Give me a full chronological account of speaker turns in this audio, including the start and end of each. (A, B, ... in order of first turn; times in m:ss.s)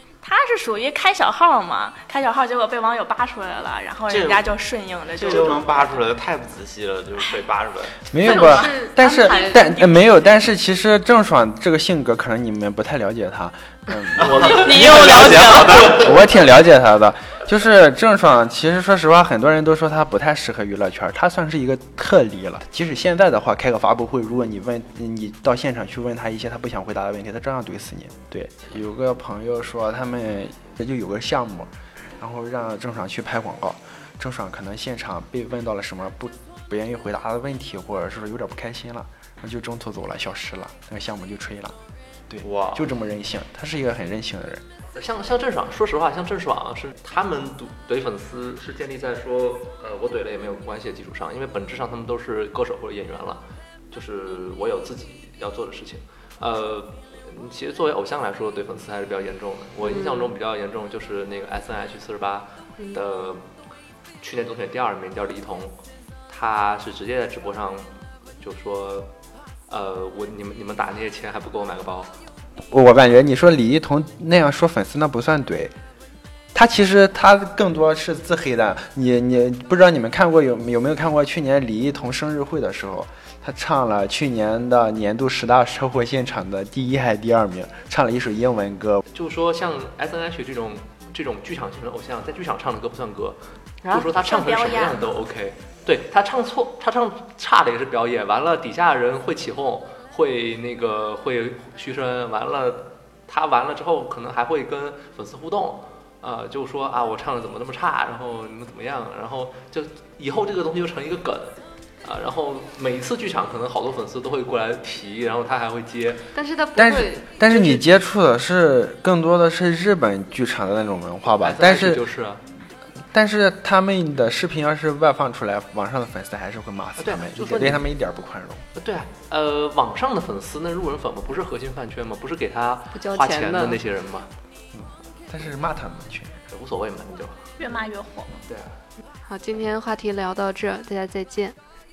0:00.2-0:06.0 A
0:04.1-0:04.5 B
0:05.1-0:08.0 B
0:08.1-0:41.7 C
0:08.2-0:08.7 A
0:08.2-0:09.8 D
0:14.2-0:15.6 E
0:14.3-0:15.9 B
0:14.4-0:16.1 A
0:42.3-0:44.6 C
0:42.4-0:42.8 B
0:44.9-1:03.5 E
0:59.8-1:00.3 D
1:04.2-1:05.8 E
1:06.3-1:09.1 E
1:09.7-1:12.1 E
1:12.7-1:15.7 C
1:16.5-1:29.0 C
1:29.1-1:56.2 E
1:34.2-1:35.0 A
1:56.3-1:57.8 D
1:56.8-2:02.0 C
2:01.4-2:02.4 E
2:03.1-2:08.6 C
2:07.0-2:07.8 E
2:08.7-2:14.3 E
2:12.9-2:13.8 D
2:14.7-2:16.4 C
2:16.5-2:17.5 E
2:17.6-2:18.4 A
2:18.4-2:18.8 E
2:19.2-2:21.6 D